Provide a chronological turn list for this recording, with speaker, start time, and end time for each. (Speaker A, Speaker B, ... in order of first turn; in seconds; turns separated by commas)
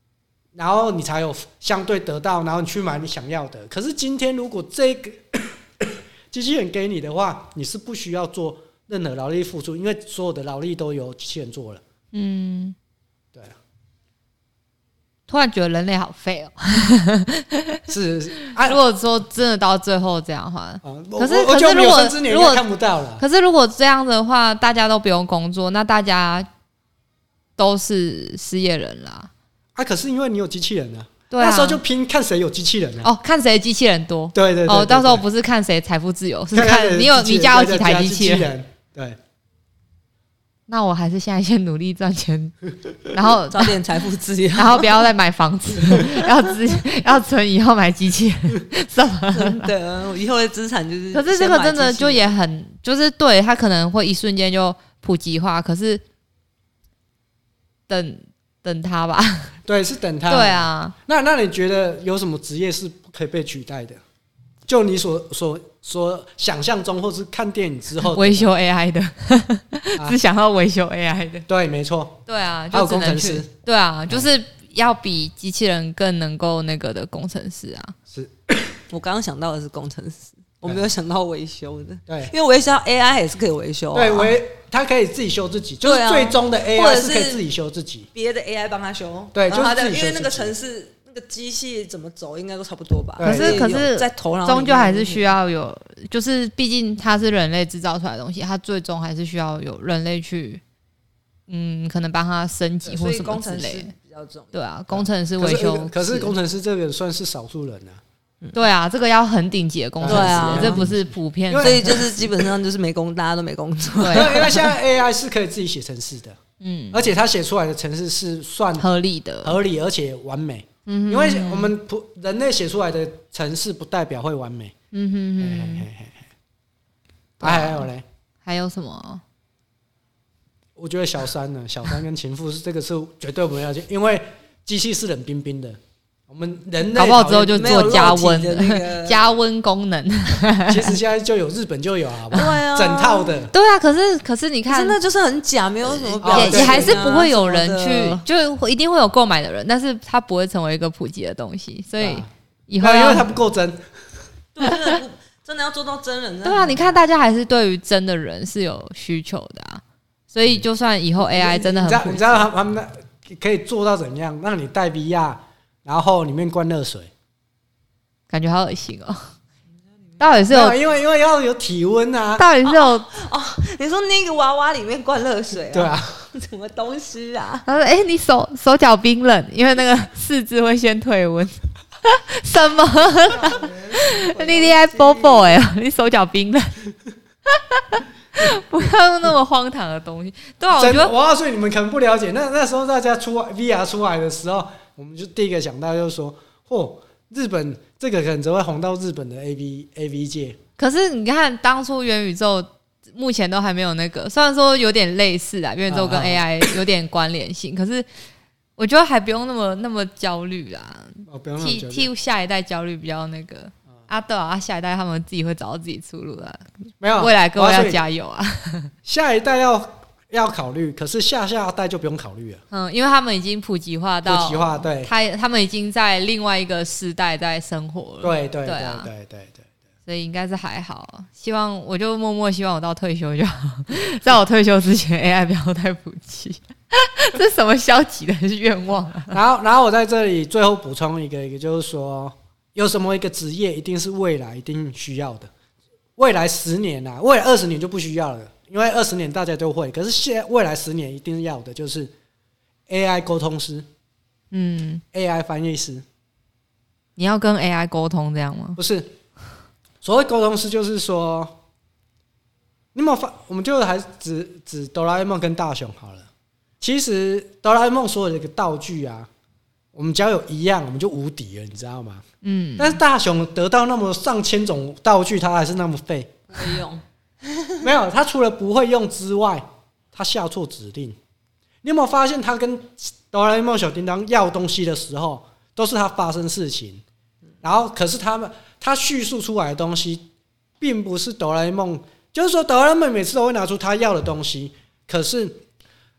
Speaker A: 0.5-11.8, Speaker B: 12.1-12.7, Speaker B: 15.3-17.8, Speaker A: 17.9-18.8, Speaker B: 18.6-22.6, Speaker A: 20.8-23.2, Speaker B: 23.2-26.5, Speaker B: 27.6-29.3, Speaker A: 29.7-33.1, Speaker B: 31.3-31.8, Speaker B: 33.0-38.5, Speaker A: 34.3-35.2, Speaker A: 36.5-39.2, Speaker B: 40.7-43.8, Speaker C: 43.5-45.1, Speaker B: 44.5-49.7, Speaker C: 46.0-46.5, Speaker C: 49.3-52.3, Speaker B: 51.1-56.0, Speaker B: 57.9-59.5, Speaker A: 59.6-64.0, Speaker B: 60.3-61.0, Speaker A: 64.7-68.5, Speaker B: 68.0-71.5, Speaker A: 71.5-72.2, Speaker B: 72.3-77.9, Speaker A: 72.7-73.5, Speaker A: 78.1-78.8, Speaker C: 78.9-84.3, Speaker A: 82.1-82.3, Speaker A: 83.9-88.1, Speaker C: 85.8-87.4, Speaker C: 88.1-95.3, Speaker A: 89.3-90.5, Speaker A: 93.2-93.7, Speaker B: 93.2-100.6, Speaker B: 101.5-103.9, Speaker C: 102.8-104.5, Speaker B: 104.5-106.3, Speaker A: 104.9-108.0, Speaker B: 108.5-112.2, Speaker A: 110.0-112.0, Speaker C: 110.0-110.9, Speaker C: 111.6-114.7, Speaker B: 114.0-114.5, Speaker A: 114.1-116.4, Speaker B: 116.6-117.1, Speaker A: 116.9-118.8, Speaker B: 118.8-119.6, Speaker A: 119.4-124.7, Speaker B: 120.8-121.7, Speaker B: 124.9-125.9, Speaker A: 125.4-126.2, Speaker B: 127.4-127.9, Speaker A: 127.4-128.0, Speaker B: 128.4-129.2, Speaker A: 130.8-138.2, Speaker B: 136.9-140.9, Speaker C: 137.5-139.3, Speaker A: 140.7-143.5, Speaker C: 142.3-143.4, Speaker B: 143.5-145.0, Speaker C: 144.7-148.2, Speaker B: 146.0-153.3, Speaker A: 146.2-147.1, Speaker A: 152.0-152.3, Speaker A: 152.8-153.8, Speaker C: 154.5-157.0, Speaker B: 156.4-162.4, Speaker A: 161.2-167.1, Speaker B: 168.3-169.3, Speaker B: 170.2-170.8, Speaker A: 170.5-172.4, Speaker B: 172.4-173.1, Speaker C: 172.6-177.6, Speaker A: 175.7-176.3, Speaker B: 177.7-186.8, Speaker C: 183.2-185.6, Speaker B: 187.5-191.1, Speaker A: 190.8-200.6, Speaker B: 200.8-208.1, Speaker A: 205.9-206.7, Speaker B: 208.8-216.6, Speaker A: 211.3-212.1, Speaker A: 217.0-218.0, Speaker B: 217.2-218.9, Speaker A: 219.0-222.6, Speaker B: 222.7-229.1, Speaker A: 224.2-225.1, Speaker A: 228.2-229.6, Speaker B: 230.1-239.4, Speaker A: 239.3-245.5, Speaker A: 246.2-252.1, Speaker A: 252.9-253.9, Speaker B: 254.5-255.0, Speaker A: 255.1-256.0, Speaker B: 257.2-258.8, Speaker A: 258.8-259.1, Speaker A: 260.0-261.6, Speaker A: 262.9-266.3, Speaker A: 266.8-269.3, Speaker A: 269.9-272.2, Speaker B: 272.4-273.0, Speaker A: 272.8-276.4, Speaker C: 276.5-277.7, Speaker A: 277.8-281.2, Speaker A: 281.8-287.0, Speaker A: 287.6-290.3, Speaker A: 290.8-295.6